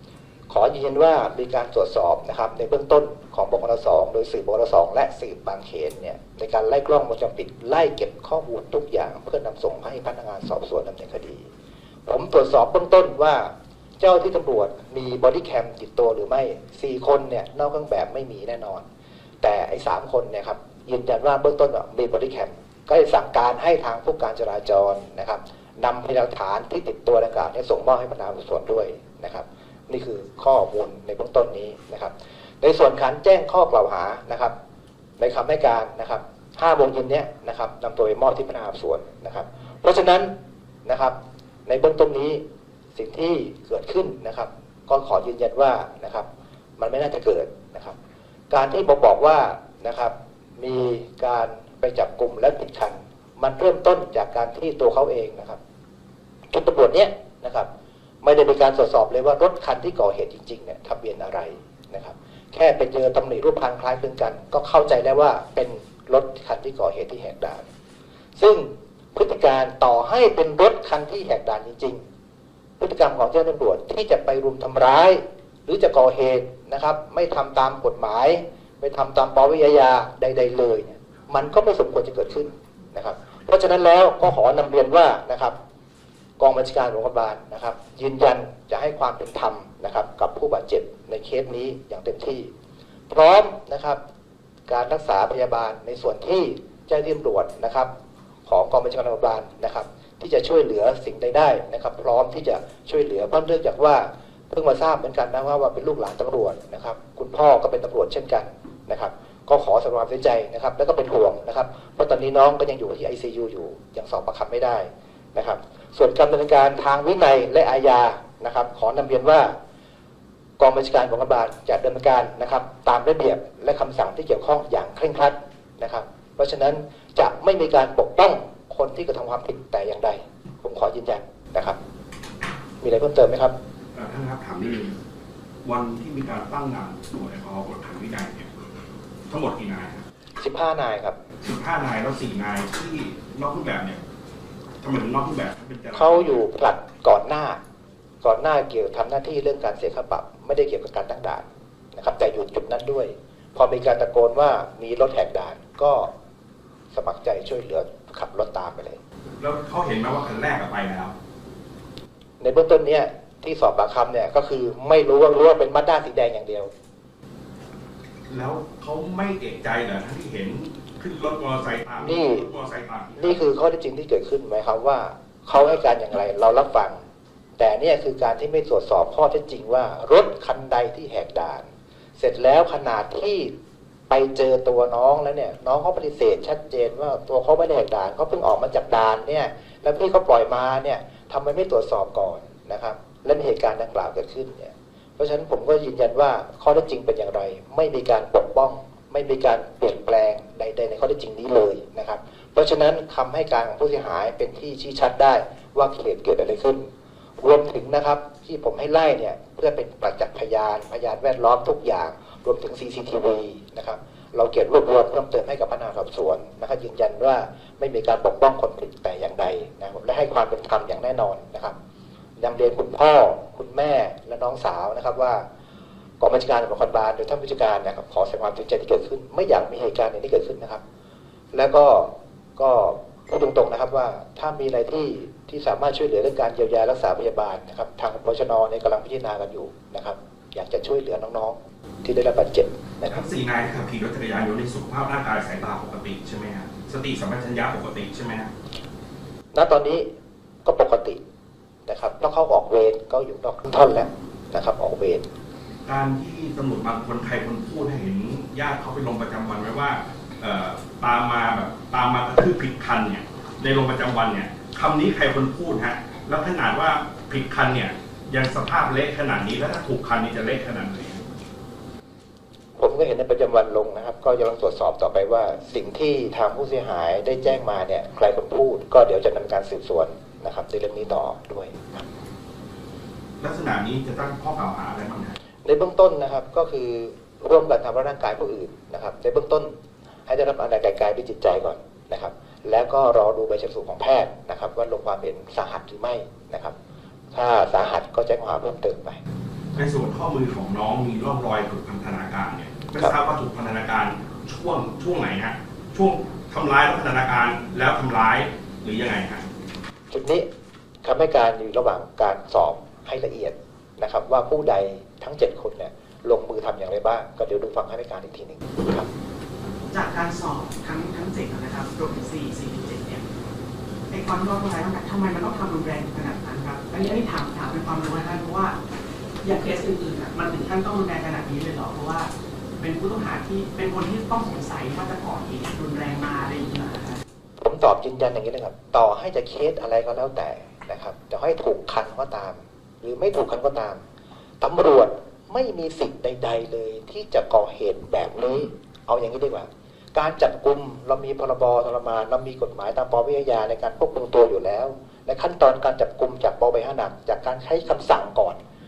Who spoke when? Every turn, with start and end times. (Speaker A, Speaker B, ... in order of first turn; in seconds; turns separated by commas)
Speaker A: 0.5-11.5, Speaker A: 12.1-18.8, Speaker A: 19.4-34.5, Speaker A: 35.2-40.3, Speaker A: 40.8-41.1, Speaker A: 41.7-42.4, Speaker A: 42.9-46.3, Speaker A: 46.8-48.0, Speaker A: 48.5-55.6, Speaker A: 56.5-57.7, Speaker A: 58.2-67.6, Speaker A: 68.4-72.0, Speaker A: 72.8-85.5, Speaker A: 86.4-92.5, Speaker A: 93.1-94.0, Speaker A: 94.7-97.9, Speaker A: 98.5-119.5, Speaker A: 120.6-131.8, Speaker A: 132.8-133.5, Speaker B: 133.9-135.0, Speaker B: 135.6-138.5, Speaker B: 139.3-140.0, Speaker A: 140.4-141.2, Speaker B: 141.4-144.0, Speaker B: 144.8-146.4, Speaker A: 145.9-147.6, Speaker A: 148.2-156.1, Speaker A: 156.9-159.0, Speaker B: 159.4-161.1, Speaker A: 162.4-166.7, Speaker B: 168.3-173.4, Speaker A: 172.0-172.5, Speaker A: 173.2-177.0, Speaker A: 177.6-183.5, Speaker A: 184.1-206.9, Speaker A: 207.4-221.7, Speaker A: 222.4-225.4, Speaker A: 226.2-230.8, Speaker A: 231.5-243.2, Speaker B: 243.1-248.5, Speaker A: 249.5-250.1, Speaker A: 250.6-251.2, Speaker A: 251.8-255.3, Speaker B: 255.8-271.2, Speaker A: 272.8-282.0, Speaker B: 283.4-285.4, Speaker A: 285.6-289.7, Speaker A: 290.3-296.7, Speaker A: 297.3-299.2, Speaker B: 299.7-309.4, Speaker A: 310.1-310.4, Speaker A: 311.0-319.1, Speaker C: 319.9-323.2, Speaker C: 324.1-328.8, Speaker C: 329.4-337.2, Speaker A: 337.6-344.0, Speaker A: 344.6-358.6